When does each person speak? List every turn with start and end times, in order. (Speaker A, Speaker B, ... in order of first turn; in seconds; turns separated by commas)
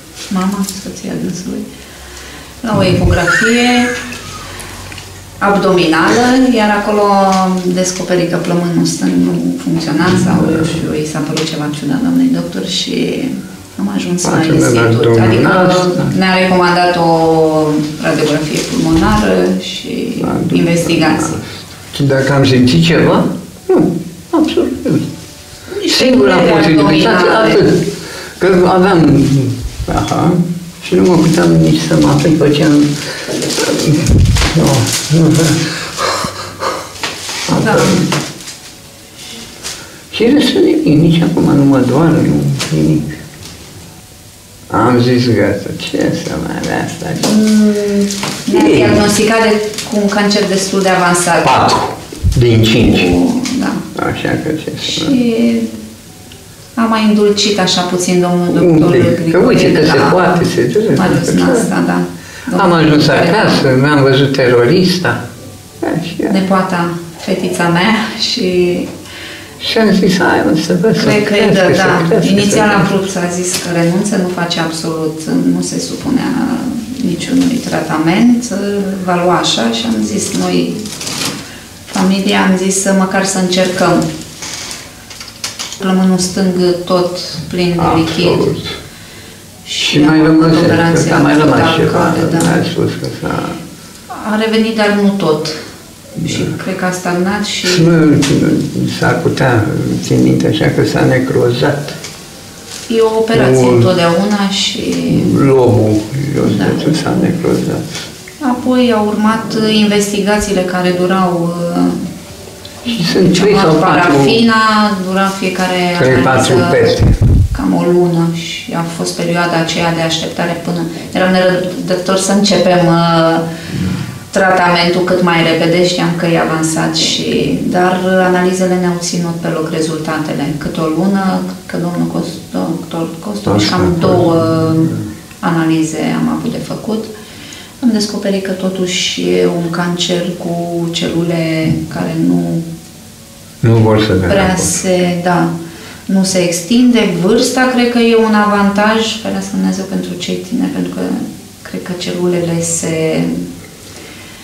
Speaker A: 0.3-1.6, Speaker A: 2.6-3.9, Speaker A: 5.4-21.4, Speaker B: 10.1-10.8, Speaker B: 14.2-16.1, Speaker B: 20.2-25.1, Speaker A: 25.7-27.6, Speaker B: 25.9-27.9, Speaker B: 28.4-32.9, Speaker B: 33.5-35.7, Speaker B: 37.5-38.1, Speaker A: 37.5-38.1, Speaker B: 40.1-43.1, Speaker B: 44.7-47.3, Speaker A: 47.2-51.7, Speaker B: 48.5-49.1, Speaker B: 51.4-53.1, Speaker A: 52.8-53.9, Speaker B: 53.9-55.2, Speaker A: 54.8-55.7, Speaker A: 56.8-60.4, Speaker B: 58.5-61.7, Speaker A: 60.9-63.7, Speaker B: 62.5-65.2, Speaker B: 65.8-66.4, Speaker A: 66.3-68.9, Speaker B: 69.6-72.9, Speaker A: 70.9-80.8, Speaker A: 81.9-84.0, Speaker A: 85.8-88.5, Speaker B: 87.8-88.8, Speaker A: 89.6-92.6, Speaker B: 89.8-93.6, Speaker A: 94.1-95.5, Speaker A: 96.1-98.0, Speaker B: 96.2-96.5, Speaker B: 97.6-102.0, Speaker A: 102.9-105.4, Speaker B: 103.3-103.9, Speaker B: 105.1-108.0, Speaker A: 106.4-107.1, Speaker A: 108.4-112.0, Speaker B: 112.8-114.4, Speaker A: 113.0-116.9, Speaker B: 116.0-117.3, Speaker A: 117.5-123.5, Speaker A: 124.3-137.1, Speaker B: 133.4-135.0, Speaker A: 137.8-142.7, Speaker B: 143.6-144.7, Speaker A: 144.3-145.5, Speaker A: 146.1-153.4